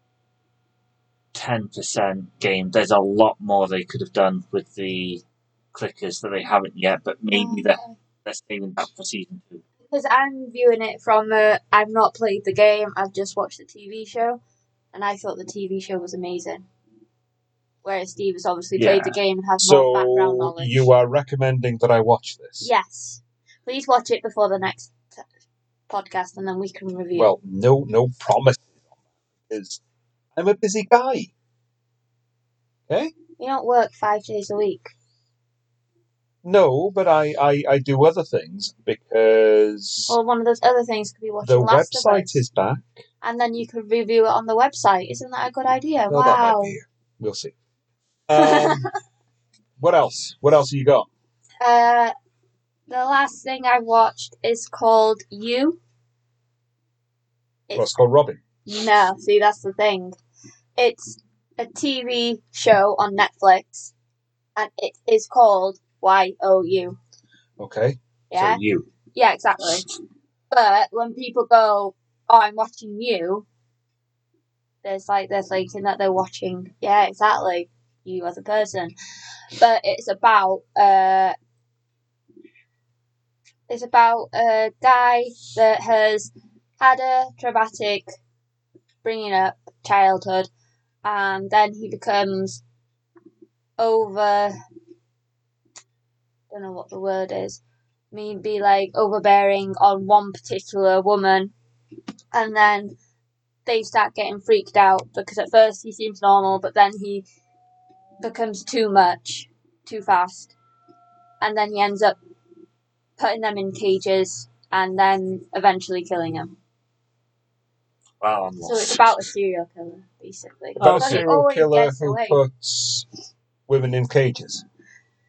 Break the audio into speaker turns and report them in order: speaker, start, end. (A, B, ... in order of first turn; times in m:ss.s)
0:01.3-0:05.2 A
0:05.7-0:09.6 A
0:07.3-0:08.0 B
0:09.9-0:14.4 B
0:14.9-0:16.7 B
0:17.8-0:20.9 B
0:18.8-0:19.2 A
0:19.6-0:22.7 C
0:22.6-0:25.2 B
0:25.9-0:27.3 B
0:27.2-0:28.8 C
0:29.5-0:29.8 C
0:30.3-0:31.3 C
0:33.4-0:34.9 B
0:36.4-0:40.2 C
0:40.1-0:42.4 B
0:41.4-0:43.0 C
0:43.2-0:46.8 B
0:46.1-0:47.5 C
0:48.3-0:48.9 C
0:48.4-0:48.9 B
0:49.8-0:51.1 C
0:51.6-0:52.1 B
0:52.9-0:55.8 B
0:57.7-0:58.4 C
0:58.6-1:00.2 B
1:00.8-1:03.9 B
1:04.6-1:07.0 B
1:07.6-1:08.8 C
1:08.3-1:08.6 B
1:09.1-1:09.8 B
1:10.5-1:13.5 B
1:14.8-1:18.9 B
1:19.6-1:21.4 B
1:23.7-1:28.1 B
1:29.0-1:30.5 B
1:31.0-1:32.6 B
1:33.8-1:34.6 B
1:36.5-1:37.6 B
1:38.1-1:41.5 B
1:42.3-1:43.0 B
1:43.7-1:47.2 B
1:48.2-1:50.5 B
1:51.4-1:52.2 B
1:53.2-1:56.5 B
1:58.2-1:59.3 A
1:58.6-2:02.4 B
2:00.8-2:01.3 A
2:00.8-2:03.0 C
2:03.7-2:04.6 C